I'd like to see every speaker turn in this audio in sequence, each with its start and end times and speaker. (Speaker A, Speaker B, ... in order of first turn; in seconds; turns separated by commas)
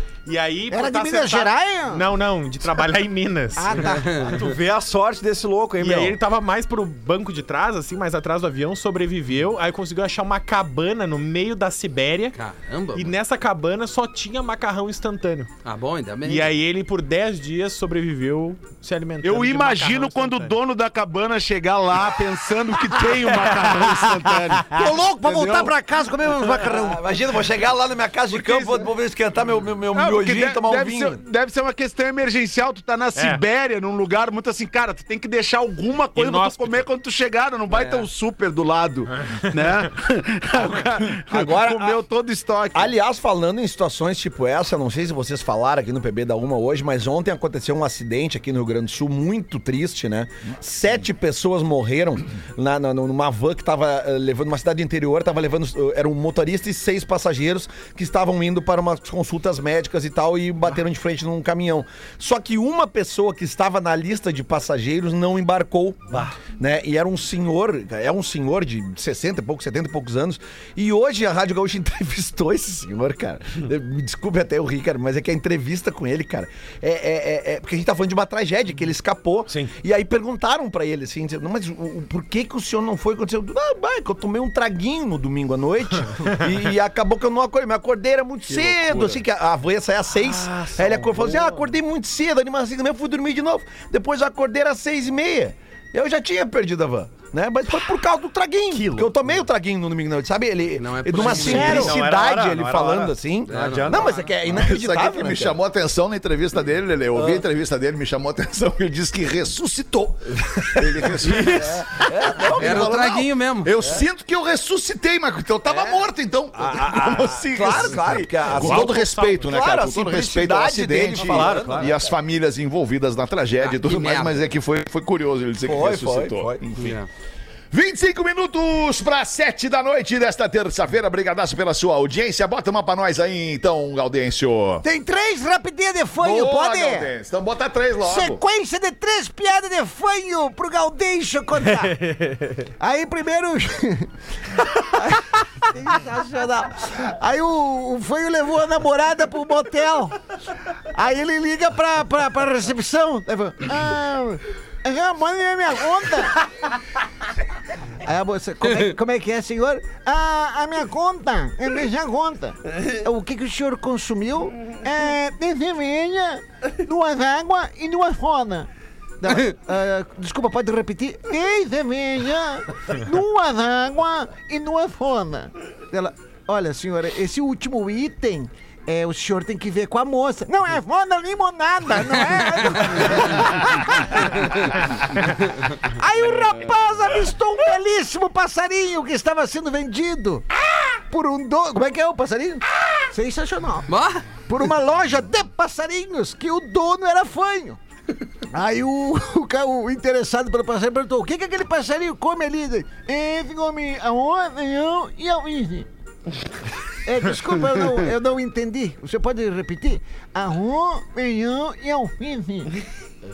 Speaker A: 0.3-3.9, Speaker B: 0.7-2.0, Speaker B: 3.6-4.2, Speaker C: 4.0-4.3, Speaker D: 4.2-6.2, Speaker A: 5.8-12.4, Speaker C: 12.3-13.1, Speaker A: 12.9-15.5, Speaker C: 15.7-16.5, Speaker A: 16.2-20.6, Speaker E: 19.2-25.7, Speaker B: 24.7-27.0, Speaker F: 26.7-31.2, Speaker E: 28.3-28.9, Speaker E: 29.9-42.9, Speaker A: 33.1-33.4, Speaker A: 36.1-36.9, Speaker A: 39.3-39.5, Speaker F: 40.6-42.0, Speaker F: 42.7-105.6, Speaker E: 88.5-89.2, Speaker D: 90.6-91.5, Speaker D: 98.7-99.1, Speaker C: 100.8-102.0, Speaker D: 101.2-104.3, Speaker B: 101.5-101.9, Speaker A: 101.6-103.0, Speaker C: 103.5-104.2, Speaker G: 104.4-127.0, Speaker F: 107.2-107.4, Speaker F: 110.8-112.9, Speaker C: 112.6-113.7, Speaker F: 116.6-122.1, Speaker A: 118.6-119.3, Speaker D: 121.2-122.0, Speaker C: 123.6-124.4, Speaker F: 125.7-126.6, Speaker C: 126.8-127.1, Speaker G: 127.7-134.8, Speaker B: 134.8-137.1, Speaker G: 136.2-138.4, Speaker B: 138.0-141.9, Speaker A: 141.8-142.6, Speaker B: 142.8-144.1, Speaker B: 144.8-150.2, Speaker B: 150.9-156.5, Speaker B: 158.0-168.7, Speaker B: 169.2-197.8, Speaker C: 193.9-194.3, Speaker B: 198.5-205.9, Speaker B: 207.1-212.7